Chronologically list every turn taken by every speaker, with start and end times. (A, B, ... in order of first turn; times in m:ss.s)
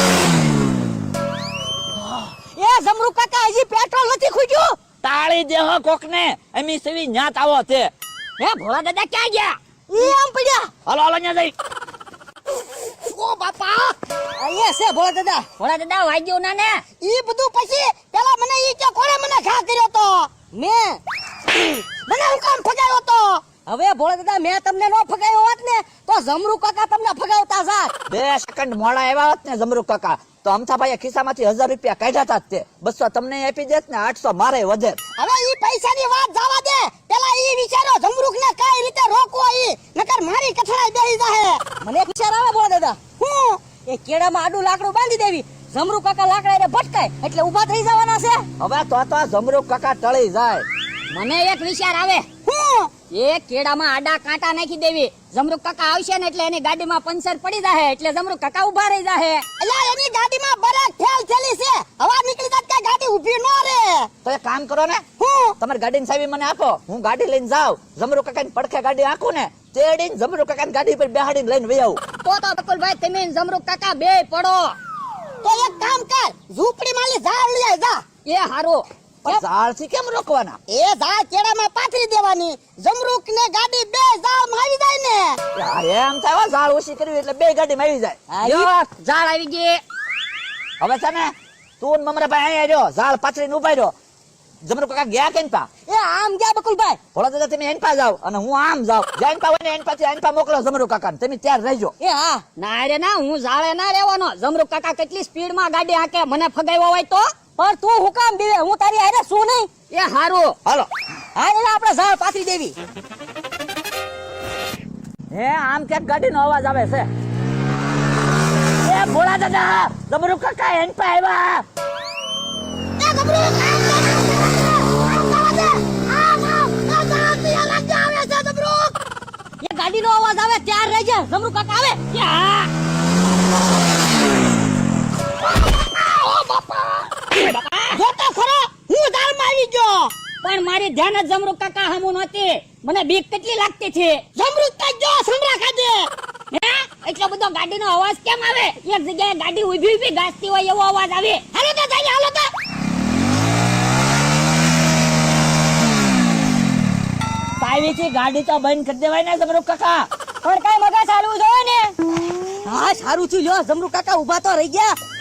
0:02.0-0:04.8 A
0:05.0-0:07.9 B
0:08.4-0:09.6 C
0:09.9-0:10.7 A
0:10.9-0:11.5 B
0:13.0-0:14.0 D
0:14.4-0:15.5 A
0:15.6-0:16.8 C
0:17.0-0:20.3 D
0:20.5-0:21.0 A
0:21.6-0:23.4 D
0:23.7-0:27.9 A
0:28.1-0:35.0 B
0:35.2-0:41.6 D
0:41.8-0:43.0 A
0:43.2-0:43.6 D
0:43.9-0:48.5 A
0:48.6-0:50.7 B
0:51.1-0:52.3 C
0:52.5-0:52.9 D
0:53.1-0:59.4 C
0:59.6-1:04.1 D
1:04.2-1:05.0 B
1:05.2-1:05.6 D
1:05.6-1:12.0 B
1:12.2-1:14.8 C
1:15.4-1:18.0 D
1:18.3-1:18.8 C
1:19.2-1:20.6 B
1:20.7-1:25.4 D
1:25.6-1:28.2 B
1:28.3-1:28.7 A
1:28.4-1:29.8 C
1:30.8-1:33.9 B
1:34.6-1:35.7 B
1:35.9-1:37.0 A
1:37.2-1:42.0 B
1:42.0-1:42.4 A
1:42.6-1:47.3 C
1:47.6-1:49.7 A
1:49.9-1:50.6 C
1:51.4-1:52.8 A
1:55.3-1:57.1 B
1:58.8-2:01.6 B
2:03.0-2:09.0 D
2:09.6-2:12.0 A
2:12.1-2:12.7 C
2:15.9-2:16.9 D
2:17.3-2:18.0 C
2:17.9-2:20.1 D
2:20.4-2:24.2 C
2:24.4-2:26.1 D
2:26.5-2:31.5 C
2:31.7-2:32.0 D
2:37.6-2:40.1 B
2:40.4-2:41.9 C
2:42.6-2:45.0 A